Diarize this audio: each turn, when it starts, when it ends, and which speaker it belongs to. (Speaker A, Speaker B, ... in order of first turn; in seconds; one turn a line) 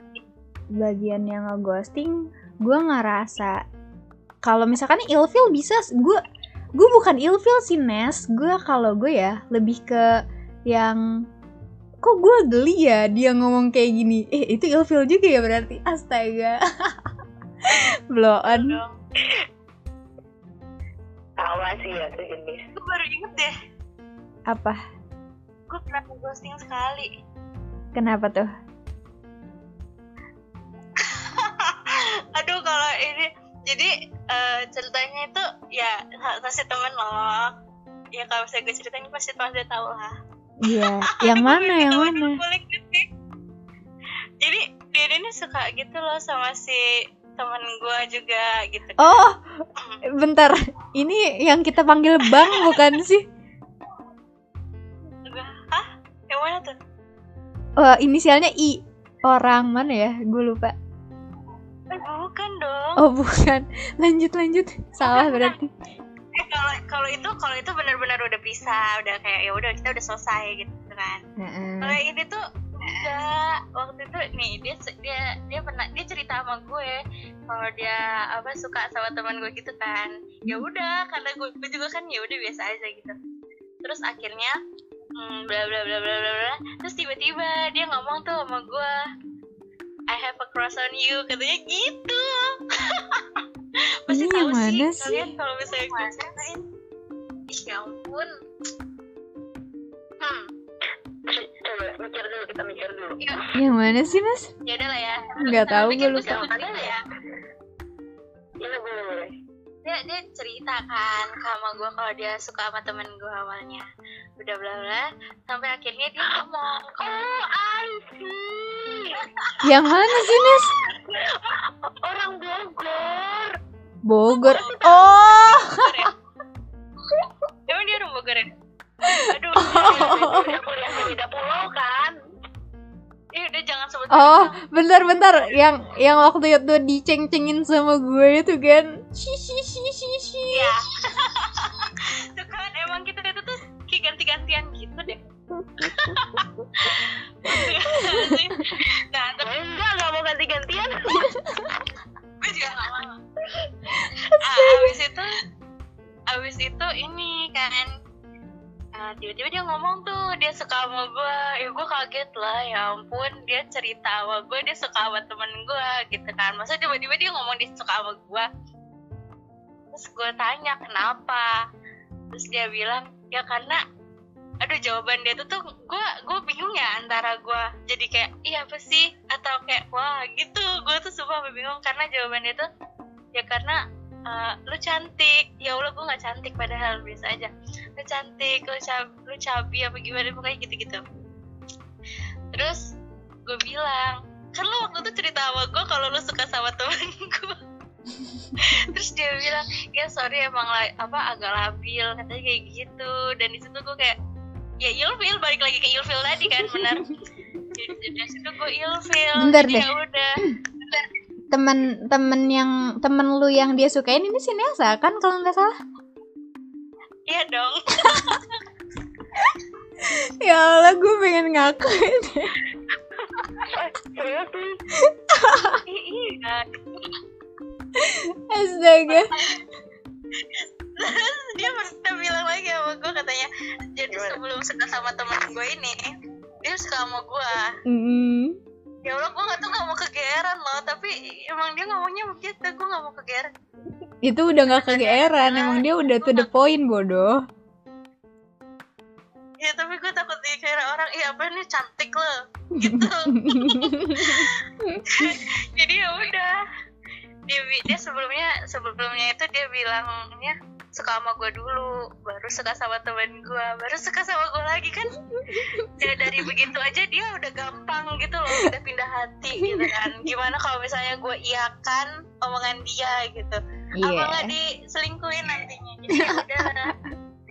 Speaker A: 0.7-3.6
Speaker A: 4.4-6.2
Speaker A: 6.8-10.1
Speaker A: 10.7-11.2
Speaker A: 12.0-17.1
Speaker A: 17.6-18.8
Speaker B: 18.4-18.9
Speaker C: 21.4-22.6
Speaker B: 22.8-23.6
Speaker A: 24.5-24.8
Speaker B: 25.7-27.1
Speaker A: 27.9-28.5
Speaker B: 31.0-37.5
Speaker B: 38.1-40.1
Speaker A: 40.6-42.4
Speaker B: 40.7-43.1
Speaker B: 44.4-49.1
Speaker A: 49.0-53.3
Speaker B: 52.2-52.9
Speaker B: 55.2-56.8
Speaker A: 57.8-60.8
Speaker B: 61.9-63.1
Speaker A: 63.0-65.7
Speaker B: 65.0-65.5
Speaker B: 66.3-71.2
Speaker A: 71.4-72.0
Speaker B: 71.8-77.0
Speaker B: 77.5-83.2
Speaker B: 83.8-84.6
Speaker B: 85.2-89.0
Speaker B: 90.1-93.4
Speaker B: 94.1-96.7
Speaker A: 94.1-95.4
Speaker B: 97.5-98.4
Speaker B: 100.2-100.5
Speaker C: 101.3-103.3
Speaker A: 103.5-104.5
Speaker B: 104.6-107.0
Speaker A: 105.4-106.4
Speaker C: 106.2-107.0
Speaker C: 108.6-109.3
Speaker B: 109.8-113.8
Speaker B: 114.4-117.2
Speaker C: 116.9-119.3
Speaker B: 119.4-120.6
Speaker A: 119.6-120.7
Speaker C: 120.2-120.5
Speaker C: 121.0-123.6
Speaker A: 124.0-126.1
Speaker B: 124.3-126.1
Speaker B: 127.7-128.5
Speaker A: 129.0-130.6
Speaker B: 129.1-130.7
Speaker C: 130.1-132.2
Speaker B: 133.3-134.6
Speaker A: 134.1-140.8
Speaker B: 140.5-145.2
Speaker A: 145.6-146.2
Speaker B: 145.8-149.5
Speaker A: 147.5-148.6
Speaker C: 149.4-151.3
Speaker A: 151.1-151.7
Speaker B: 152.4-153.2
Speaker A: 154.0-155.0
Speaker B: 154.3-155.3
Speaker B: 156.3-157.9
Speaker B: 158.9-168.5
Speaker B: 169.9-171.5
Speaker B: 172.3-173.8
Speaker B: 174.6-182.7
Speaker B: 183.3-191.0
Speaker B: 192.5-192.9
Speaker B: 193.4-197.6
Speaker B: 198.6-204.2
Speaker B: 204.8-211.1
Speaker A: 206.7-207.0
Speaker A: 209.4-209.9
Speaker A: 211.5-215.7
Speaker B: 217.3-218.6
Speaker A: 220.0-222.6
Speaker C: 223.6-224.8
Speaker A: 224.9-225.8
Speaker B: 225.9-227.2
Speaker A: 227.9-229.3
Speaker B: 229.1-229.7
Speaker B: 230.5-236.0
Speaker C: 234.1-234.4
Speaker B: 236.6-237.8
Speaker A: 237.9-238.6
Speaker B: 239.0-243.5
Speaker A: 244.2-247.4
Speaker B: 244.7-246.5
Speaker B: 249.6-256.6
Speaker A: 252.8-255.4
Speaker B: 257.5-265.2
Speaker A: 265.3-266.5
Speaker B: 266.0-276.9
Speaker A: 269.6-270.2
Speaker A: 273.9-274.5
Speaker A: 276.1-277.1